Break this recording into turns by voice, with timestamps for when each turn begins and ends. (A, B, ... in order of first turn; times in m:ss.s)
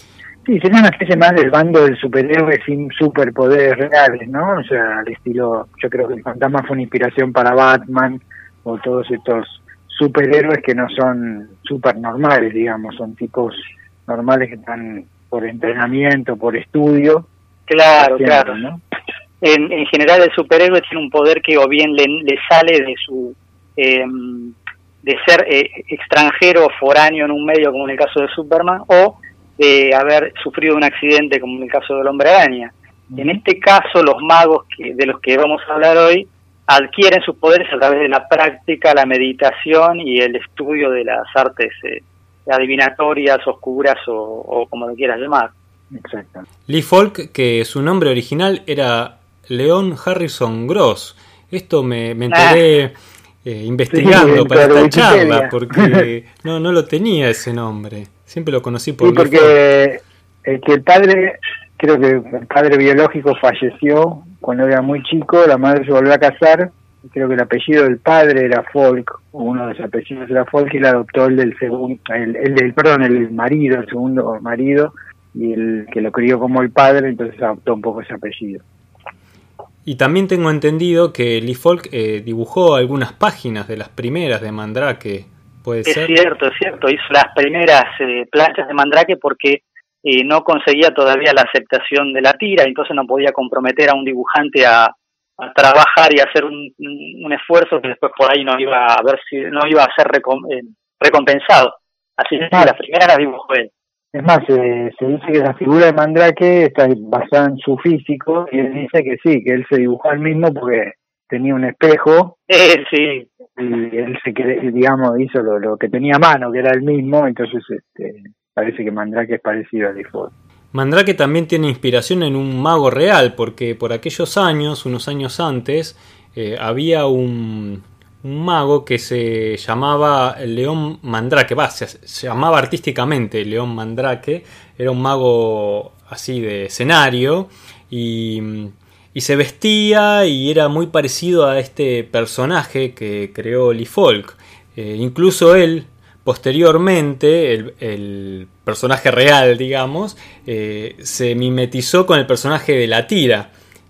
0:00.4-0:17.3 A
0:17.7-0:18.6 B
0:18.0-0:18.8 A
0:19.4-0:45.5 B
0:33.1-0:33.4 A
0:45.9-0:46.5 A
0:46.7-0:59.5 C
0:52.3-0:52.6 B
0:53.9-0:56.1 A
0:59.0-1:18.6 A
1:19.8-1:26.1 C
1:25.9-1:43.7 B
1:44.1-1:52.4 A
1:52.5-1:53.3 B
1:53.6-2:00.3 A
2:00.7-2:33.5 C